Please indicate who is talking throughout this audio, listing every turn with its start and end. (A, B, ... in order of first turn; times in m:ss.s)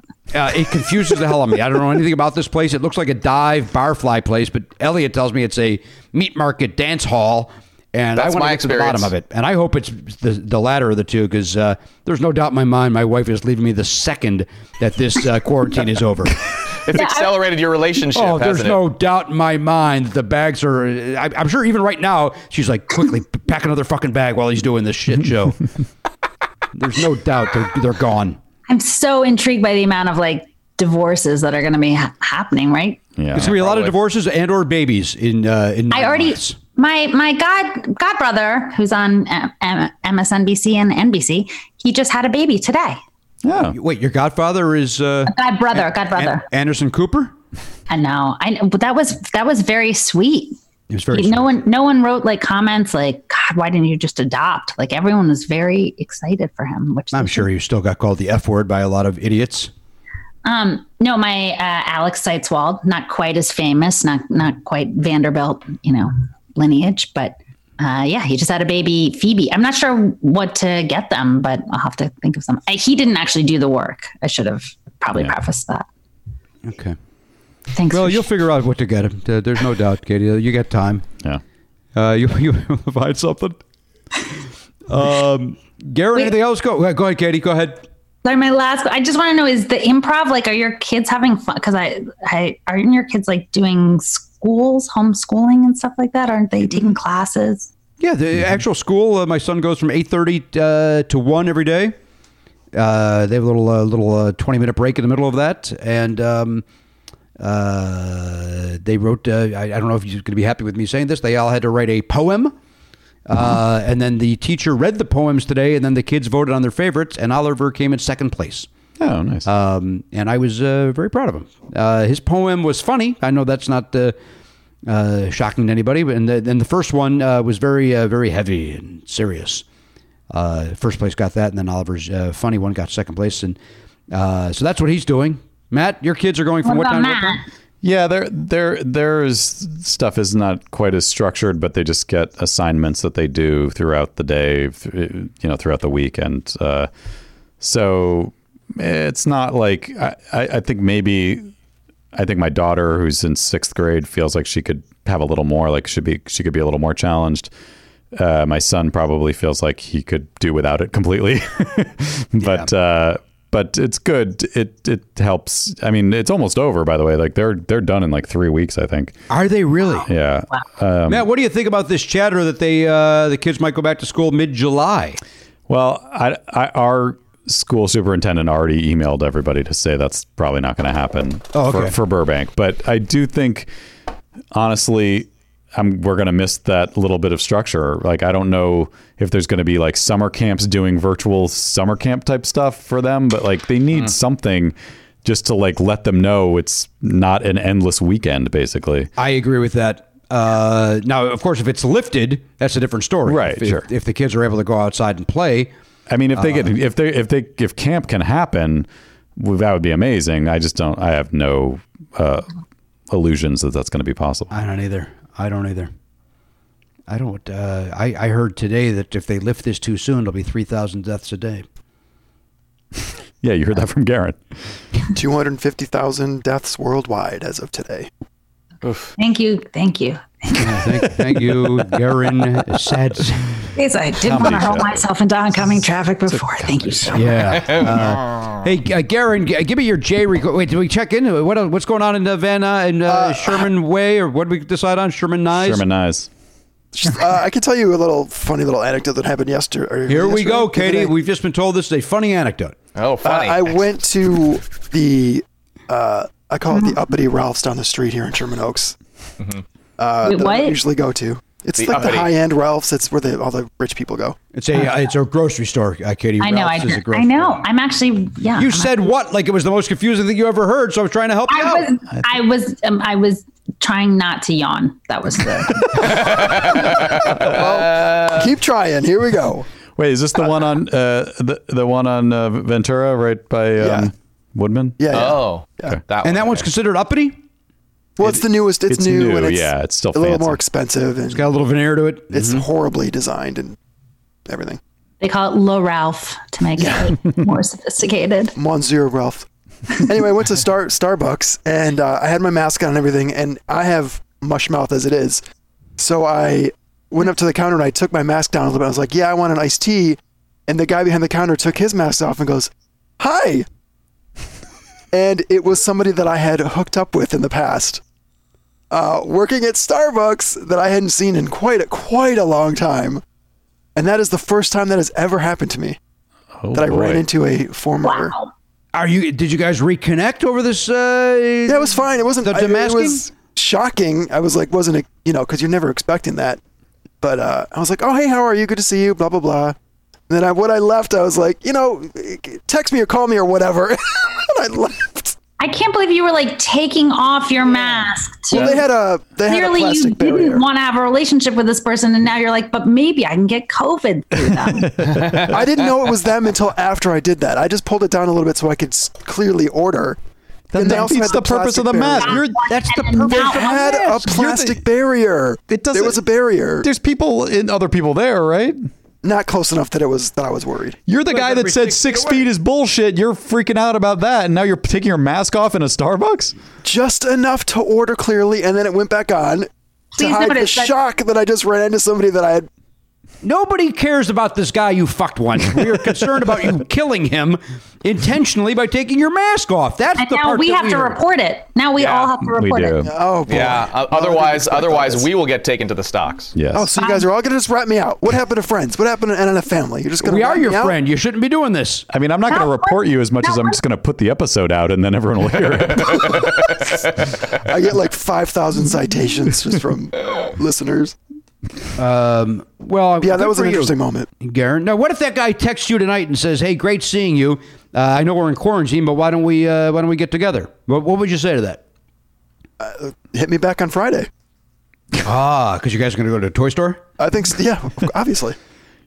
0:00.3-0:16.4 A
0:08.2-0:09.1 B
0:16.8-0:18.8 B
0:16.9-0:17.4 C
0:18.1-0:25.6 A
0:26.7-0:28.4 A
0:28.7-0:33.0 C
0:33.2-0:33.6 D
0:33.3-0:36.6 A
0:33.6-0:33.9 B
0:35.9-0:43.0 C
0:43.4-0:43.8 D
0:43.7-0:47.3 A
0:45.3-0:46.4 C
0:47.9-0:50.6 C
0:50.9-0:51.6 A
0:51.1-0:57.5 C
0:57.1-0:59.7 A
1:00.4-1:15.8 C
1:16.6-1:17.0 A
1:17.7-1:18.3 C
1:17.9-1:21.0 A
1:21.9-1:23.6 A
1:24.9-1:27.8 A
1:28.2-1:37.7 C
1:38.0-1:41.9 A
1:42.7-1:46.6 A
1:47.4-1:52.5 A
1:53.2-1:58.7 A
1:59.0-1:59.5 D
1:59.4-2:04.2 A
2:04.8-2:09.6 A
2:10.3-2:13.6 A
2:14.1-2:17.4 A
2:16.6-2:17.4 C
2:17.8-2:26.9 D
2:27.6-2:31.5 D
2:32.1-2:37.5 D
2:38.1-2:49.2 D
2:42.4-2:42.7 A
2:49.3-2:50.1 A
2:50.0-2:51.3 D
2:51.1-2:55.2 A
2:55.7-3:03.7 D
3:01.5-3:01.9 A
3:04.5-3:19.1 D
3:19.2-3:25.7 A
3:23.2-3:23.8 D
3:26.1-3:32.5 D
3:26.4-3:26.7 A
3:33.1-3:34.5 D
3:34.5-3:35.9 A
3:37.1-3:41.6 A
3:43.4-3:44.6 D
3:45.1-3:48.1 E
3:48.8-3:49.1 B
3:49.2-3:50.9 C
3:50.5-3:53.5 A
3:53.8-3:57.3 C
3:54.2-3:55.1 D
3:56.2-3:57.4 D
3:57.1-4:05.8 A
3:57.6-3:57.9 B
4:03.1-4:03.7 E
4:05.6-4:06.3 D
4:06.9-4:11.1 E
4:10.1-4:12.7 A
4:12.9-4:13.8 B
4:13.2-4:19.0 E
4:16.7-4:17.0 C
4:20.0-4:24.4 E
4:20.2-4:20.8 C
4:21.8-4:22.3 B
4:24.5-4:27.7 A
4:26.4-4:29.0 C
4:28.5-4:31.9 A
4:31.5-4:36.2 C
4:36.0-4:38.5 B
4:36.2-4:39.7 E
4:40.0-4:45.0 D
4:43.8-4:44.1 E
4:45.0-4:46.0 E
4:45.1-4:46.6 B
4:46.2-4:47.4 A
4:48.2-4:51.4 E
4:48.2-4:50.6 D
4:51.3-4:52.6 A
4:52.3-4:53.8 E
4:54.5-4:54.8 E
4:55.2-4:58.5 C
4:56.8-4:57.1 E
4:58.6-5:05.4 E
5:06.0-5:13.6 E
5:15.1-5:18.0 E
5:18.9-5:23.2 E
5:24.0-5:26.0 E
5:26.6-5:27.2 D
5:26.7-5:28.3 E
5:28.0-5:28.5 C
5:28.9-5:33.2 A
5:31.7-5:36.6 E
5:37.2-5:39.8 E
5:40.3-5:45.4 E
5:45.6-5:48.8 C
5:47.8-5:50.6 E
5:49.5-5:55.0 C
5:54.5-5:55.5 D
5:55.1-5:55.5 B
5:55.2-6:00.2 E
6:00.7-6:02.7 D
6:00.7-6:02.5 E
6:02.2-6:04.0 C
6:02.6-6:04.8 A
6:03.3-6:06.9 E
6:05.7-6:06.2 D
6:06.8-6:08.9 D
6:09.2-6:11.0 E
6:11.1-6:16.5 D
6:11.3-6:12.5 A
6:16.8-6:22.7 E
6:20.1-6:20.9 C
6:23.4-6:31.2 A
6:30.2-6:33.1 C
6:32.0-6:32.3 B
6:32.5-6:33.1 D
6:33.0-6:35.3 E
6:33.5-6:36.5 B
6:36.5-6:36.9 D
6:36.7-6:41.0 E
6:36.9-6:37.3 C
6:40.2-6:42.1 A
6:42.1-6:46.6 D
6:42.4-6:43.8 C
6:47.0-6:51.1 E
6:52.0-7:01.8 A
6:53.2-6:54.3 E
7:02.8-7:04.3 E
7:05.2-7:07.0 A
7:07.2-7:08.6 E